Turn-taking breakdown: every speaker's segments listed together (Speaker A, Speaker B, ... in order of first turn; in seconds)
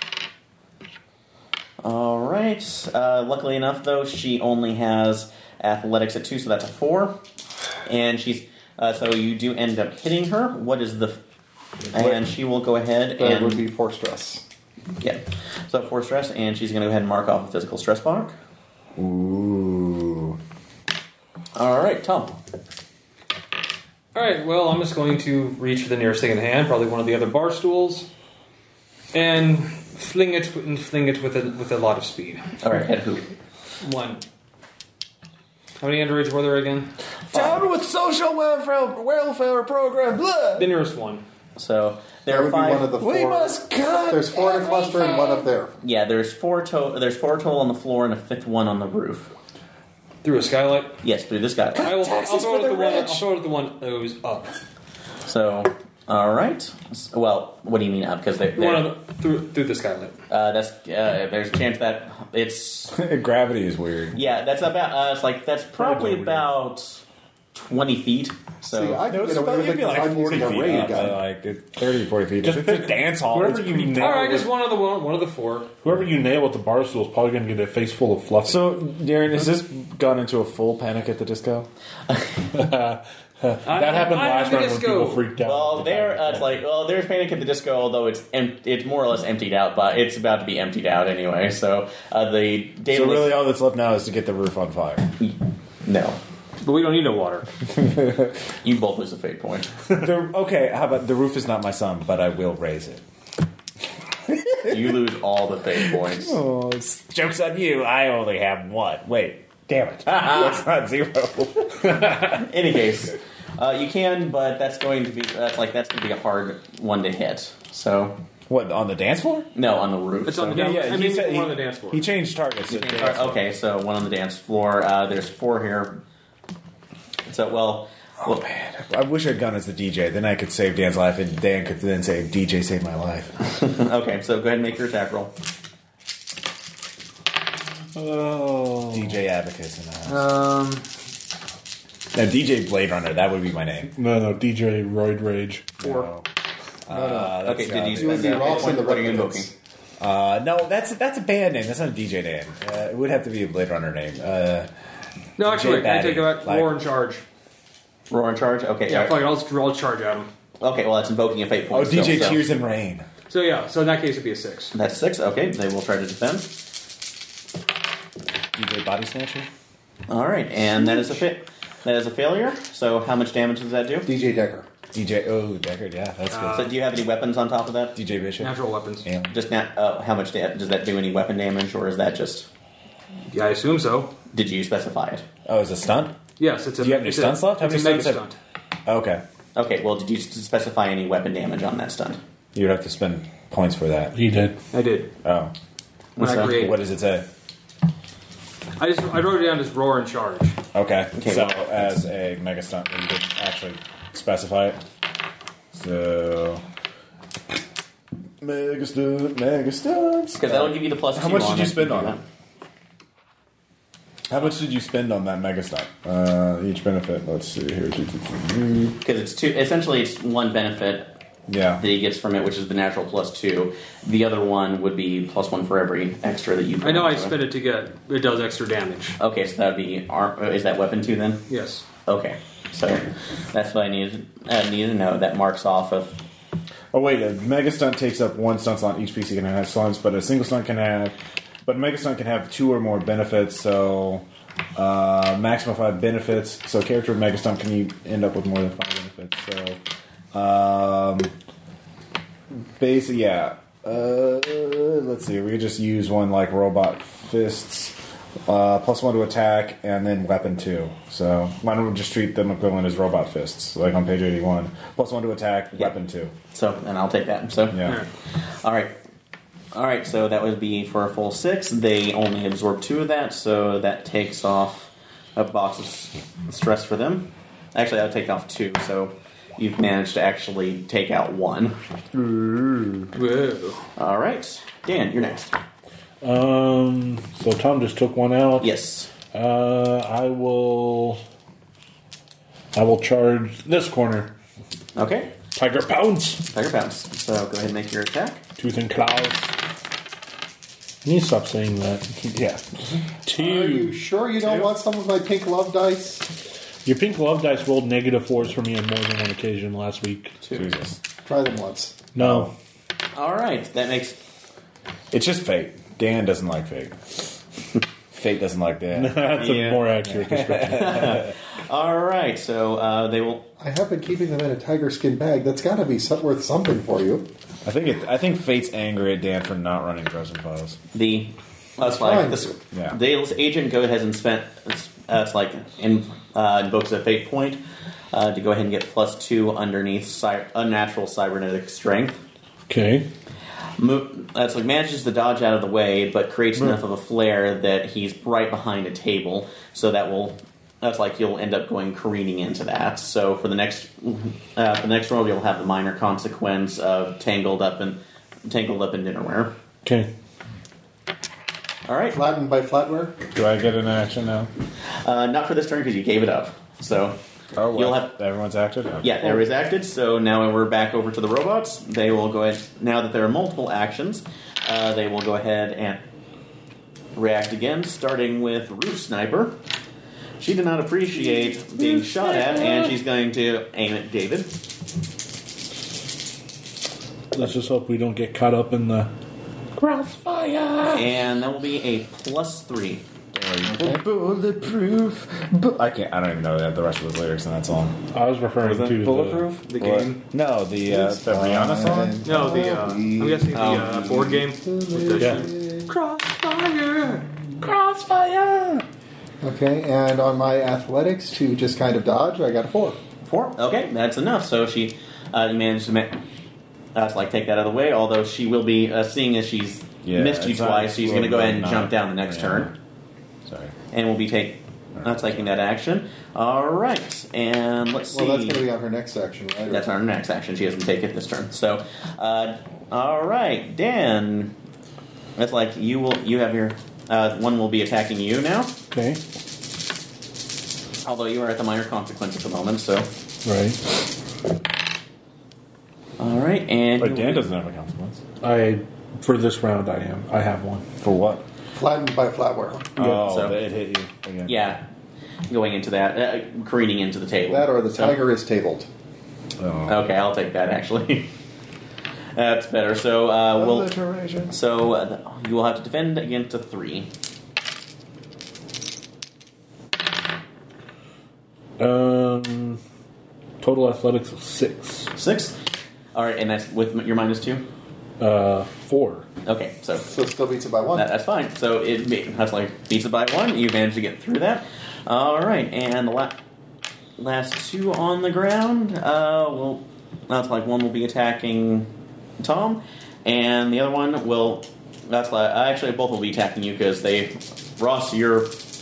Speaker A: 1.8-7.2, 7.9-11.2, 11.9-13.6, 15.0-18.4, 21.6-22.4, 32.6-33.3, 41.6-42.9, 45.8-49.3, 51.0-51.9, 55.3-59.0, 60.3-63.0, 64.1-67.0, 67.5-69.0, 85.4-93.4, 95.2-96.2, 98.6-99.8, 104.7-106.4, 110.1-110.6, 112.3-118.2, 119.5-120.8, 122.7-126.0, 127.3-128.5, 133.4-135.3, 147.4-149.5, 158.1-159.2, 160.6-162.4, 164.7-166.6, 170.1-174.1, 176.5-177.9, 179.3-182.5, 184.3-185.2, 189.6-192.2, 196.2-196.5, 201.2-201.6, 210.4-212.2, 218.9-221.1, 221.8-227.4, 229.2-231.4, 232.1-236.2, 266.5-267.9, 268.6-269.0, 269.7-281.8, 284.0-285.6, 288.6-289.1, 295.0-295.3, 296.5-298.4, 304.4-304.7, 310.4-310.7, 313.1-314.2, 319.3-319.9, 320.6-323.5, 330.9-342.2, 343.8-359.6, 361.9-362.2, 365.0-367.2, 367.7-368.2, 369.0-376.0, 377.2-379.6, 380.4-384.5, 390.9-393.0, 403.5-404.4, 413.2-416.2, 416.9-422.7, 423.9-428.6, 429.7-434.5, 435.4-438.7, 441.0-443.1, 446.2-447.4, 453.0-453.6, 454.5-454.8, 455.5-458.2, 459.9-461.3, 462.4-463.9, 464.5-467.1, 475.1-475.6, 476.1-477.7, 479.5-480.1, 480.9-486.4, 487.2-491.9, 492.4-498.6
Speaker B: 13.2-14.4, 42.3-45.7, 68.6-71.2, 146.9-149.5, 170.9-171.2, 174.1-174.7, 303.3-306.2, 311.3-312.0, 323.6-327.3, 331.8-332.6, 362.1-363.2, 393.7-394.0, 400.9-405.9, 409.4-413.0, 428.1-429.9, 451.8-452.9, 457.5-458.9, 480.0-481.1
Speaker C: 19.0-20.4, 37.3-40.7, 43.0-45.5, 51.8-53.2, 62.9-64.2, 69.1-74.5, 78.5-81.7, 92.9-95.1, 99.9-103.0, 104.3-105.0, 105.8-112.4, 118.5-119.5, 120.5-123.4, 128.2-133.3, 138.9-140.3, 142.1-143.9, 145.8-146.2, 146.9-148.6, 150.0-154.7, 155.4-156.8, 161.7-163.1, 168.6-169.5, 174.9-176.7, 178.0-178.5, 179.0-179.3, 185.5-186.2, 186.8-188.2, 188.9-189.2, 192.6-194.1, 195.2-195.5, 196.2-197.3, 200.7-204.8, 205.7-206.6, 208.4-212.2, 214.3-218.9, 221.5-221.8, 236.9-244.2, 244.8-249.8, 250.3-251.3, 252.8-266.3, 267.7-268.0, 282.1-283.1, 302.2-302.6, 310.5-311.0, 312.2-312.5, 315.1-317.0, 318.1-319.5, 320.1-321.2, 327.6-330.8, 332.7-333.0, 363.3-364.5, 367.6-369.1, 382.0-382.9, 389.8-391.1, 393.3-398.0, 398.7-402.2, 407.6-408.8, 420.0-422.8, 423.5-423.7, 425.0-425.4, 447.0-448.2, 451.0-451.4, 453.0-454.6, 459.6-460.0, 463.6-464.5
Speaker D: 24.1-28.1, 29.1-32.5, 33.8-34.2, 35.8-36.9, 40.6-41.2, 50.2-51.0, 51.8-54.6, 58.6-60.2, 73.9-75.7, 83.7-85.3, 96.6-97.5, 120.3-122.0, 140.1-140.8, 155.4-157.2, 158.9-160.3, 163.3-164.7, 176.3-176.7, 178.4-179.1, 183.3-184.2, 186.4-188.4, 194.7-195.1, 196.2-196.8, 198.8-200.6, 226.8-229.2, 231.5-231.8, 283.1-283.9, 399.6-400.2, 402.2-407.3
Speaker E: 65.8-66.5, 72.4-74.5, 75.8-78.7, 82.5-86.5, 137.9-139.1, 144.0-145.8, 194.1-194.6, 286.2-288.7, 289.3-291.2, 292.8-294.3, 295.5-296.4, 298.6-299.5, 301.0-302.2, 303.3-304.0, 306.9-310.4, 312.1-312.5, 318.9-321.2, 342.7-343.1, 359.9-360.1, 387.3-389.1, 398.1-399.6, 405.2-405.5, 438.9-439.2, 443.4-443.8, 448.4-450.9, 471.8-472.8, 473.6-475.1, 478.2-479.3